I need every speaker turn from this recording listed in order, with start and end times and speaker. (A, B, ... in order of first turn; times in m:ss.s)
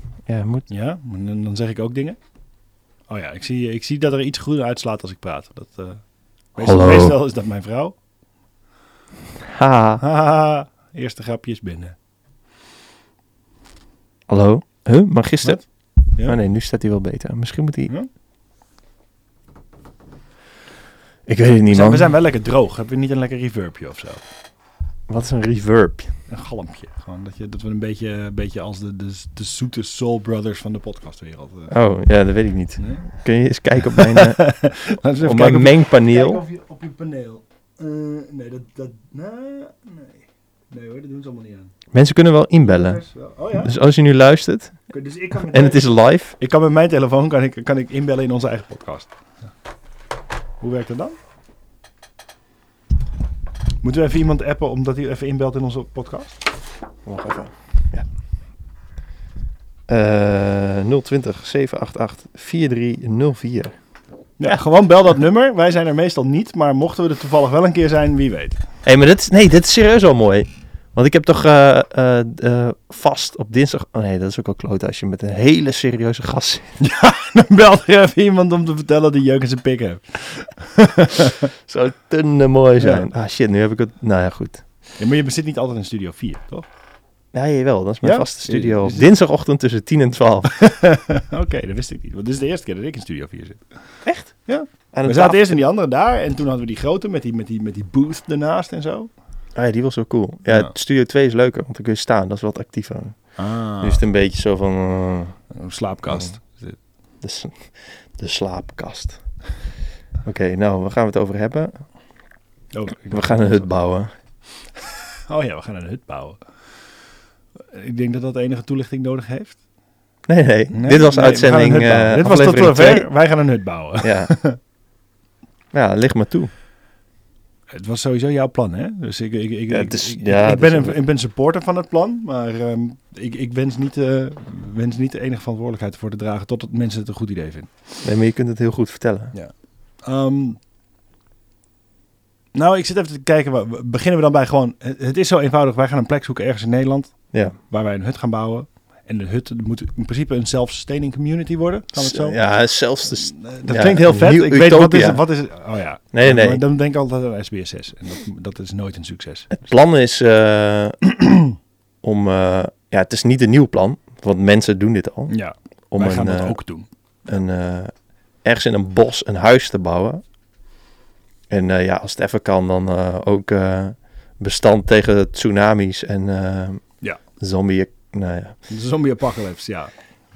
0:00.3-0:00.6 A
0:00.7-0:02.2 B
0:03.1-0:08.0 B
0:06.6-0:07.2 A
0:09.4-0:10.0 A
0:10.0-0:12.0 B
0:14.3-0:15.6 A
0:16.2-0:17.9 A
0:21.3-0:22.1 A
0:21.7-0:24.2 B
0:25.1-0:26.1 A
0:26.3-0:31.7 B
0:31.7-0:34.4 A
0:32.8-0:33.1 B
0:33.8-0:41.7 B
0:35.2-0:36.4 A
0:41.9-0:43.0 A
0:42.6-0:43.7 B
0:43.5-0:44.8 A
0:44.9-0:45.8 B
0:45.5-0:46.4 A
0:46.4-0:49.1 B
0:50.6-0:51.2 B
0:53.8-0:56.4 B
0:57.0-0:58.1 A
0:59.9-1:03.7 A
1:04.4-1:08.6 B
1:08.8-1:16.8 A
1:16.8-1:21.5 B
1:21.7-1:24.6 A
1:22.8-1:23.1 B
1:25.0-1:26.7 B
1:27.3-1:30.5 A
1:28.0-1:29.1 B
1:30.6-1:33.8 B
1:34.0-1:35.5 A
1:34.3-1:39.1 B
1:39.5-1:45.4 A
1:40.5-1:40.7 B
1:43.4-1:44.0 B
1:45.5-1:46.8 B
1:47.2-1:49.2 A
1:50.2-1:51.8 A
1:52.7-1:53.7 B
1:53.1-1:54.1 A
1:54.7-1:56.7 B
1:57.7-1:59.6 B
2:00.3-2:03.1 A
2:00.7-2:04.6 B
2:04.0-2:04.3 A
2:05.7-2:06.5 A
2:07.7-2:17.8 B
2:09.7-2:11.0 A
2:18.0-2:19.3 A
2:19.3-2:20.6 B
2:22.5-2:32.4 B
2:32.0-2:35.2 A
2:33.0-2:39.5 B
2:36.1-2:36.6 A
2:39.5-2:41.0 A
2:42.0-2:45.3 A
2:45.3-2:46.9 B
2:45.9-2:46.6 A
2:47.2-2:47.9 A
2:48.4-2:50.2 A
2:51.5-2:56.8 A
2:57.4-2:58.6 A
2:58.7-2:59.9 B